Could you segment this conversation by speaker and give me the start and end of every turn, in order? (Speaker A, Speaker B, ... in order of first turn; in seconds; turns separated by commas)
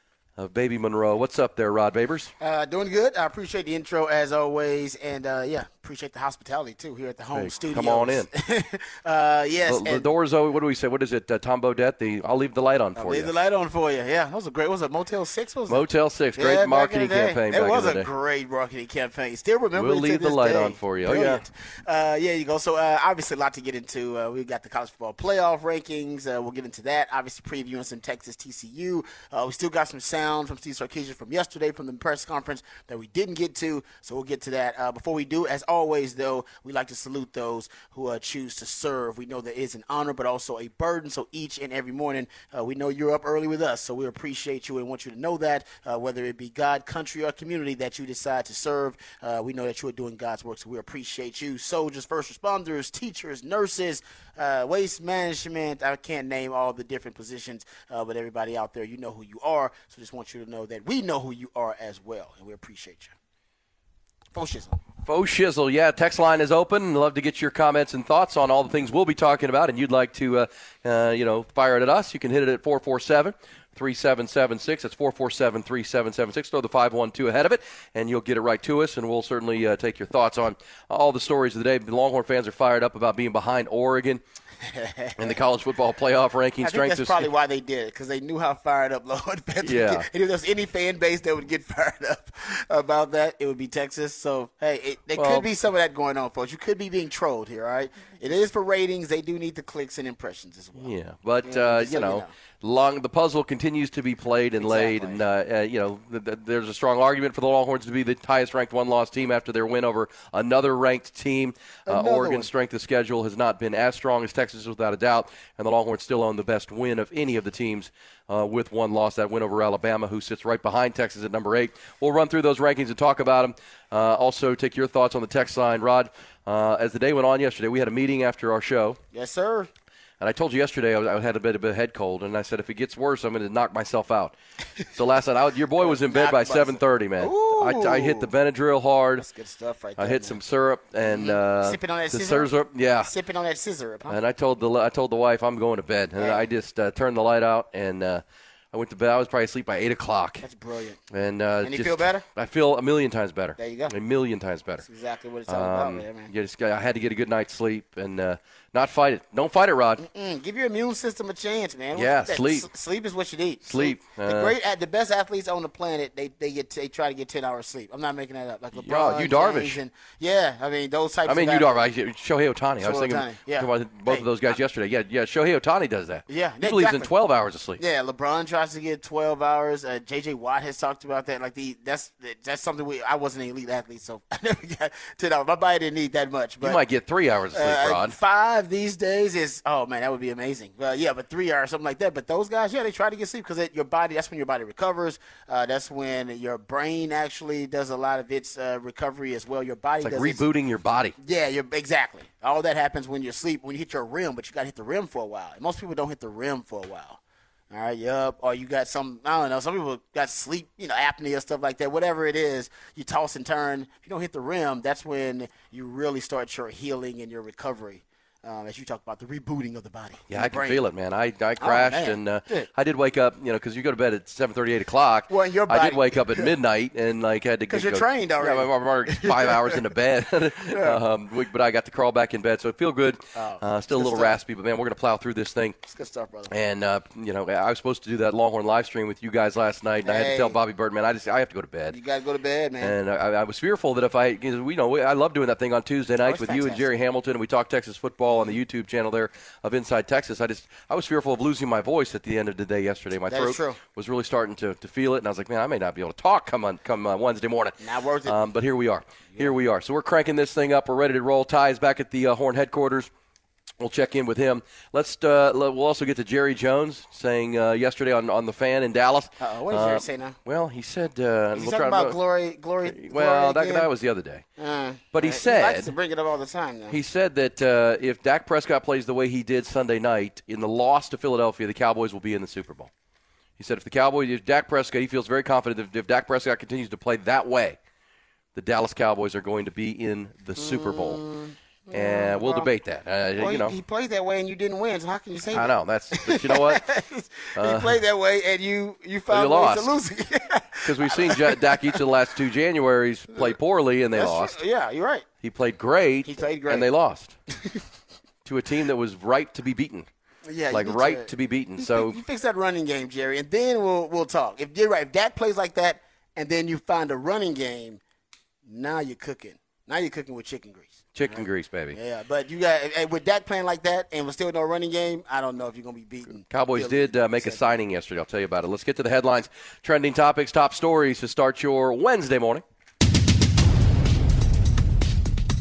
Speaker A: 0.4-2.3, Speaker B: 2.4-10.1, Speaker A: 7.3-8.3, Speaker A: 9.7-13.3, Speaker B: 13.0-15.8, Speaker A: 15.7-18.1, Speaker B: 16.4-63.1, Speaker A: 19.7-21.4, Speaker B: 64.3-64.8, Speaker A: 65.0-84.2, Speaker B: 84.6-85.4, Speaker A: 85.2-87.3, Speaker B: 86.6-102.3, Speaker A: 89.6-90.1, Speaker A: 95.2-95.5, Speaker A: 100.8-129.0, Speaker B: 104.6-105.2, Speaker B: 111.9-112.5, Speaker B: 129.1-129.7, Speaker A: 130.2-134.3, Speaker A: 134.9-139.3, Speaker B: 135.8-138.3, Speaker B: 139.2-140.4, Speaker A: 140.0-143.1, Speaker B: 141.0-144.2, Speaker A: 144.1-150.4, Speaker B: 146.2-146.5, Speaker B: 150.4-151.0, Speaker A: 151.1-154.9, Speaker B: 151.6-152.2, Speaker B: 153.6-153.9, Speaker B: 154.8-156.3, Speaker A: 155.5-160.1, Speaker B: 160.0-171.8, Speaker A: 161.9-162.7, Speaker A: 163.7-164.5, Speaker A: 168.7-169.8, Speaker A: 171.3-177.8, Speaker B: 172.8-174.5, Speaker B: 176.3-177.1, Speaker B: 177.8-186.8, Speaker A: 186.6-188.2, Speaker B: 187.5-200.4, Speaker A: 200.0-201.2, Speaker B: 201.2-220.9, Speaker A: 220.3-235.8, Speaker B: 221.6-222.7, Speaker B: 225.3-226.5, Speaker B: 227.7-229.8, Speaker B: 230.7-231.0, Speaker B: 233.3-234.4, Speaker B: 235.8-236.5, Speaker A: 236.5-242.0, Speaker B: 240.0-240.6, Speaker B: 241.9-243.0, Speaker A: 242.8-263.1, Speaker B: 246.2-246.9, Speaker B: 248.3-248.5, Speaker B: 253.3-253.8, Speaker B: 257.8-258.4, Speaker A: 263.8-272.2, Speaker B: 269.4-270.4, Speaker B: 271.6-273.9, Speaker A: 272.8-274.4, Speaker B: 274.6-277.0, Speaker A: 275.1-275.9, Speaker A: 276.9-282.9, Speaker A: 283.6-287.8, Speaker A: 288.6-291.2, Speaker B: 290.6-292.7, Speaker A: 291.9-293.8, Speaker B: 293.4-302.0, Speaker A: 295.5-296.8, Speaker A: 297.6-298.0, Speaker A: 299.3-299.9, Speaker A: 300.9-304.6, Speaker B: 304.1-305.3, Speaker A: 305.4-307.4, Speaker B: 306.2-306.9, Speaker B: 307.5-307.8, Speaker A: 308.4-310.1, Speaker B: 310.5-318.0, Speaker A: 310.7-312.2, Speaker B: 318.6-327.8, Speaker A: 321.1-322.0, Speaker A: 326.5-332.6